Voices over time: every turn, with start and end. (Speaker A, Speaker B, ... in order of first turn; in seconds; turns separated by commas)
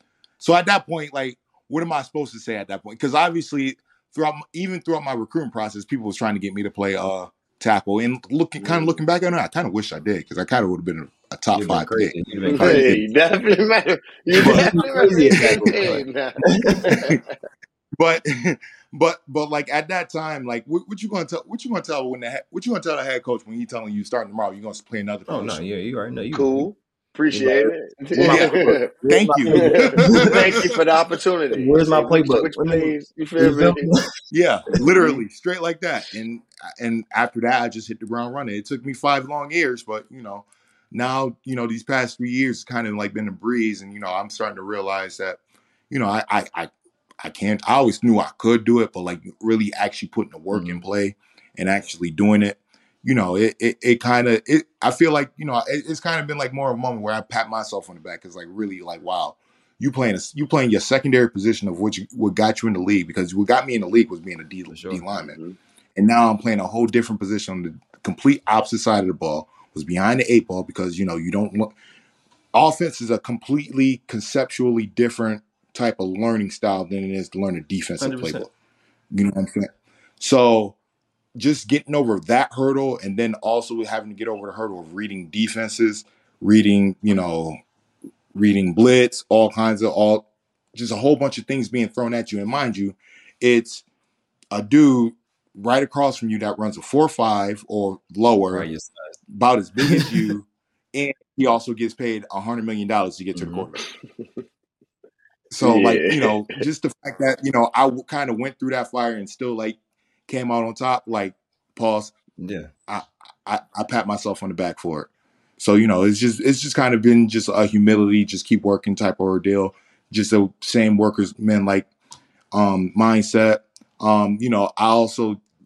Speaker A: 0.4-12.8, Speaker B: 8.6-9.0, Speaker C: 11.5-13.0, Speaker B: 12.4-17.3, Speaker C: 14.3-16.9, Speaker A: 14.4-14.8, Speaker A: 15.4-15.9, Speaker A: 16.9-17.2, Speaker A: 18.0-25.6, Speaker C: 25.3-26.7, Speaker B: 26.3-28.9, Speaker C: 27.3-30.6, Speaker A: 28.3-28.6, Speaker A: 29.1-30.6, Speaker B: 29.5-33.9, Speaker C: 31.5-34.1, Speaker A: 34.3-45.4, Speaker A: 45.9-65.4, Speaker C: 50.5-50.8, Speaker C: 64.7-65.0, Speaker B: 65.3-65.6, Speaker A: 66.0-71.7, Speaker A: 72.5-78.5, Speaker C: 78.0-78.5, Speaker A: 79.1-80.8, Speaker A: 81.4-87.6, Speaker A: 88.3-93.8, Speaker A: 94.5-98.7, Speaker C: 98.5-99.2, Speaker A: 99.3-103.8, Speaker C: 99.8-100.3, Speaker C: 103.3-103.7, Speaker A: 105.5-112.1, Speaker B: 105.6-106.6, Speaker C: 112.4-112.7, Speaker A: 112.9-121.9, Speaker A: 122.5-125.4